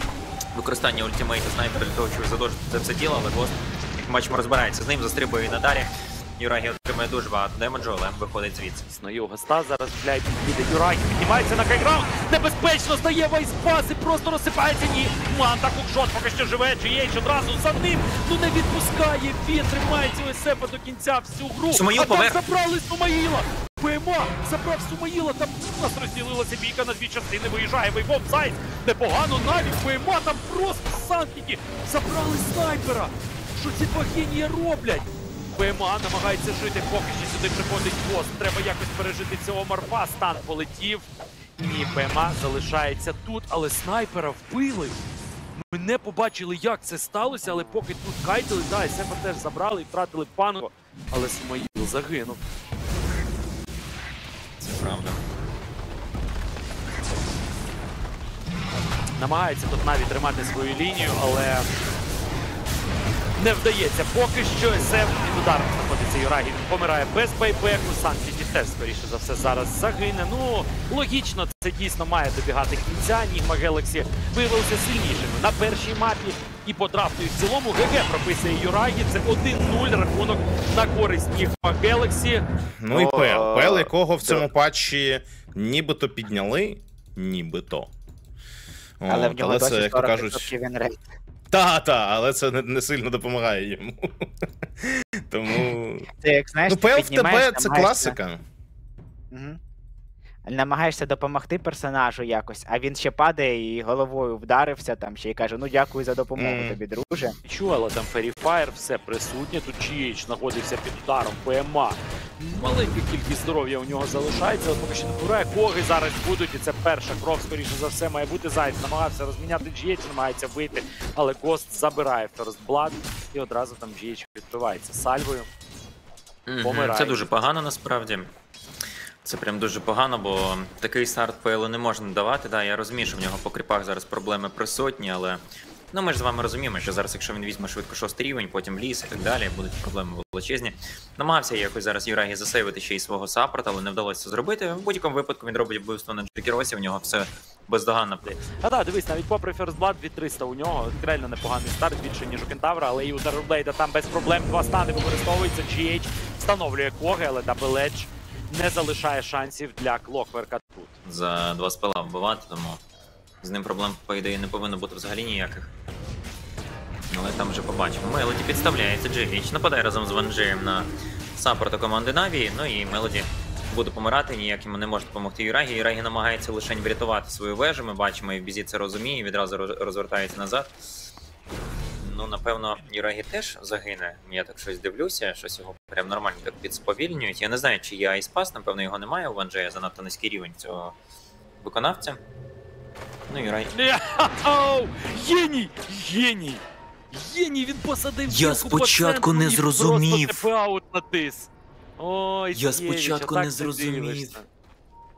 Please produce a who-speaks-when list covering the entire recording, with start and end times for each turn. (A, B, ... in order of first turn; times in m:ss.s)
0:00.6-0:08.8 A
0:08.9-0:41.1 B
0:21.7-0:22.4 A
0:41.6-0:45.0 B
0:45.6-0:52.4 B
0:54.6-0:55.2 A
0:59.2-1:01.7 B
1:03.4-1:22.4 B
1:22.8-1:27.9 C
1:22.9-1:24.4 D
1:29.0-1:30.5 C
1:29.1-1:31.0 D
1:31.5-1:36.1 C
1:36.1-1:38.2 D
1:36.7-1:38.4 C
1:39.3-1:39.6 D
1:40.4-1:47.4 D
1:46.4-1:46.8 C
1:47.4-2:05.5 B
2:06.5-2:08.3 A
2:06.6-2:07.3 B
2:09.2-2:28.4 A
2:28.2-2:40.9 B
2:41.0-2:42.8 A
2:43.4-2:45.7 A
2:47.1-3:00.8 A
3:02.0-3:11.0 A
3:11.6-3:12.2 A
3:13.3-3:13.7 A
3:13.7-3:24.5 B
3:18.3-3:20.5 A
3:22.5-3:24.4 A